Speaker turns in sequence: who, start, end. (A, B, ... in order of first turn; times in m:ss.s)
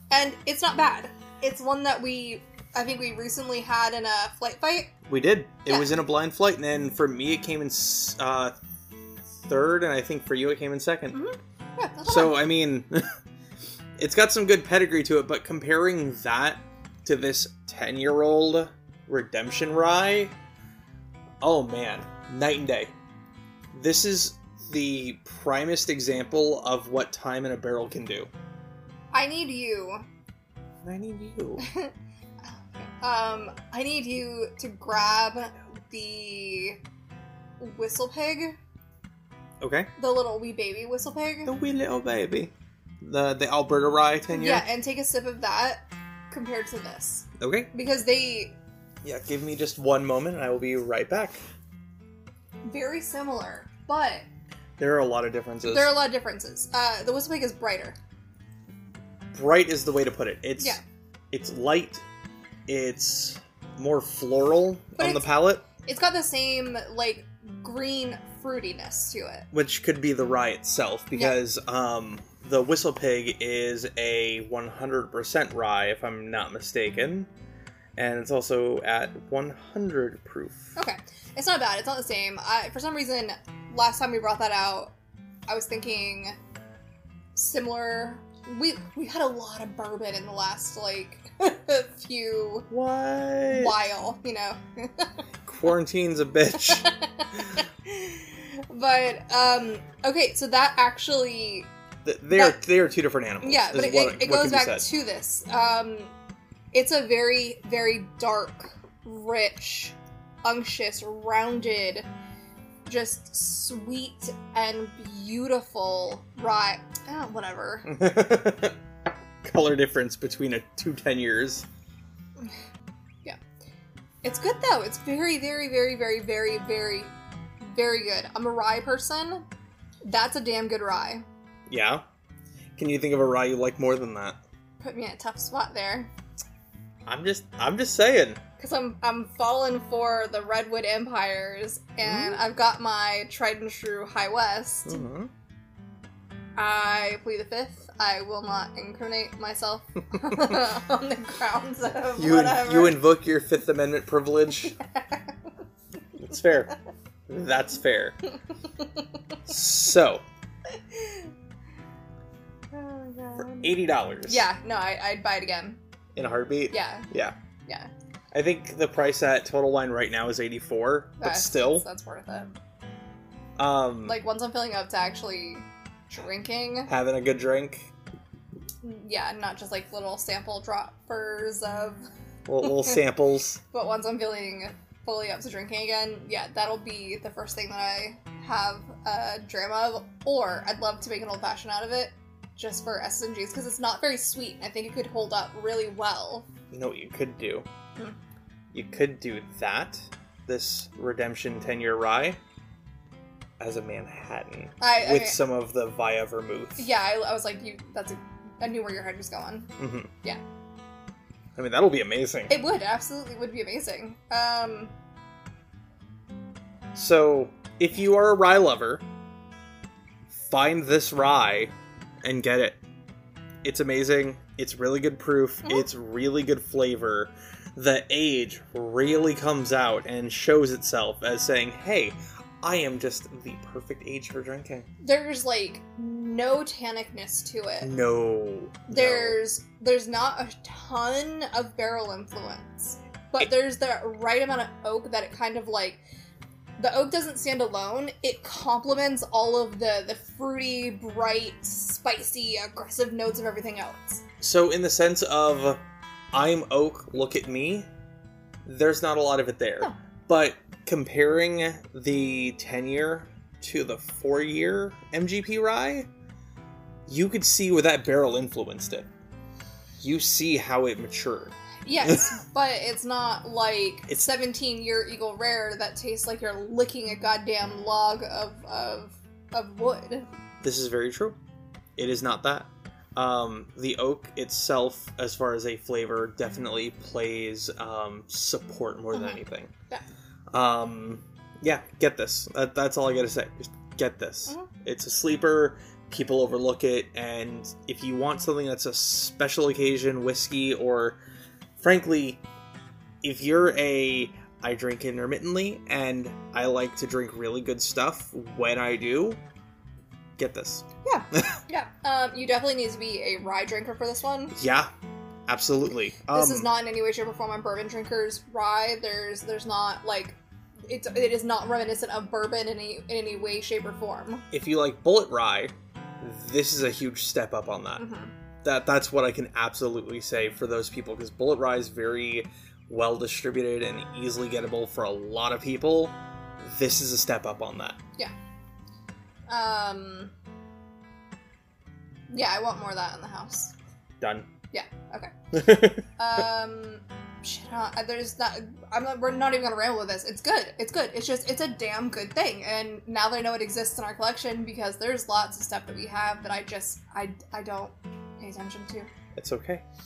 0:00.1-0:04.9 A
0:05.1-0:08.5 B
0:05.7-0:06.0 A
0:09.5-0:11.2 B
0:11.1-0:12.4 A
0:12.0-0:13.0 B
0:14.0-0:20.3 B
0:21.4-0:22.9 B
0:23.7-0:28.3 B
0:29.1-0:30.0 A
0:30.8-0:31.6 B
0:31.6-0:31.9 A
0:32.4-0:36.8 A
0:37.6-0:38.6 A
0:39.6-0:39.9 B
0:40.0-0:41.5 A
0:41.4-0:44.6 B
0:44.3-0:48.6 A
0:47.4-0:47.7 B
0:49.0-0:51.4 B
0:52.6-0:54.2 A
0:54.8-0:56.0 B
0:55.6-0:58.0 A
0:59.3-1:00.8 B
1:01.3-1:02.0 B
1:02.7-1:05.6 B
1:05.0-1:09.5 A
1:09.5-1:17.3 B
1:18.0-1:20.8 B
1:20.8-1:24.9 A
1:25.5-1:26.3 A
1:27.3-1:32.7 A
1:32.7-1:33.8 B
1:33.5-1:35.1 A
1:35.4-1:36.9 B
1:36.6-1:41.7 A
1:42.0-1:44.9 B
1:42.3-1:42.6 A
1:43.4-1:46.1 A
1:46.7-1:52.1 A
1:52.9-1:57.9 A
1:57.8-1:58.8 B
1:59.4-2:01.7 B
2:04.2-2:09.4 A
2:10.0-2:11.2 A
2:11.7-2:12.0 B
2:12.8-2:14.4 B
2:14.8-2:16.1 A
2:17.0-2:18.4 B
2:18.6-2:25.0 A
2:22.0-2:22.4 B
2:24.8-2:25.3 B
2:26.6-2:33.0 A
2:32.2-2:34.8 B
2:34.6-2:35.5 A
2:36.2-2:36.7 B
2:37.3-2:38.2 B
2:38.7-2:39.1 A
2:39.4-2:40.2 B
2:40.8-2:41.3 A
2:42.7-2:43.7 A
2:43.4-2:44.5 B
2:44.2-2:45.8 A
2:46.2-2:47.3 B
2:46.7-2:47.1 A
2:48.3-2:51.8 B
2:51.2-2:52.5 A
2:53.6-2:54.2 B
2:54.0-2:56.9 A
2:56.9-2:57.9 B
2:58.8-3:02.0 A
3:02.5-3:03.6 B
3:02.6-3:03.0 A
3:03.7-3:16.5 A
3:16.7-3:17.6 B
3:18.7-3:22.4 B
3:23.6-3:26.8 B
3:24.8-3:25.4 A
3:26.8-3:29.7 A
3:29.8-3:30.1 B
3:31.6-3:32.6 B
3:32.5-3:34.9 A
3:36.9-3:39.0 B
3:40.3-3:41.7 B
3:42.2-3:42.8 B
3:43.6-3:54.9 B
3:55.0-3:57.9 A
3:57.8-3:59.4 B
3:58.9-4:06.0 A
4:06.8-4:14.2 A
4:14.4-4:15.8 B
4:16.3-4:17.9 B
4:18.6-4:26.1 B
4:27.1-4:29.1 B
4:30.0-4:32.3 B
4:31.8-4:40.2 A
4:40.6-4:41.4 B
4:42.0-4:49.7 B
4:49.1-4:50.0 A
4:50.5-5:01.2 B
5:01.8-5:02.4 B
5:03.2-5:09.4 B
5:10.4-5:11.6 B
5:11.0-5:14.5 A
5:14.5-5:14.9 B
5:15.5-5:16.7 B
5:16.3-5:24.4 A
5:24.5-5:28.0 B
5:28.0-5:28.3 A
5:28.6-5:38.0 B
5:39.5-5:40.3 A
5:42.3-5:43.7 A
5:44.2-5:44.5 B
5:44.7-5:45.6 A
5:45.5-5:46.0 B
5:46.1-5:59.1 A
5:59.4-5:59.8 B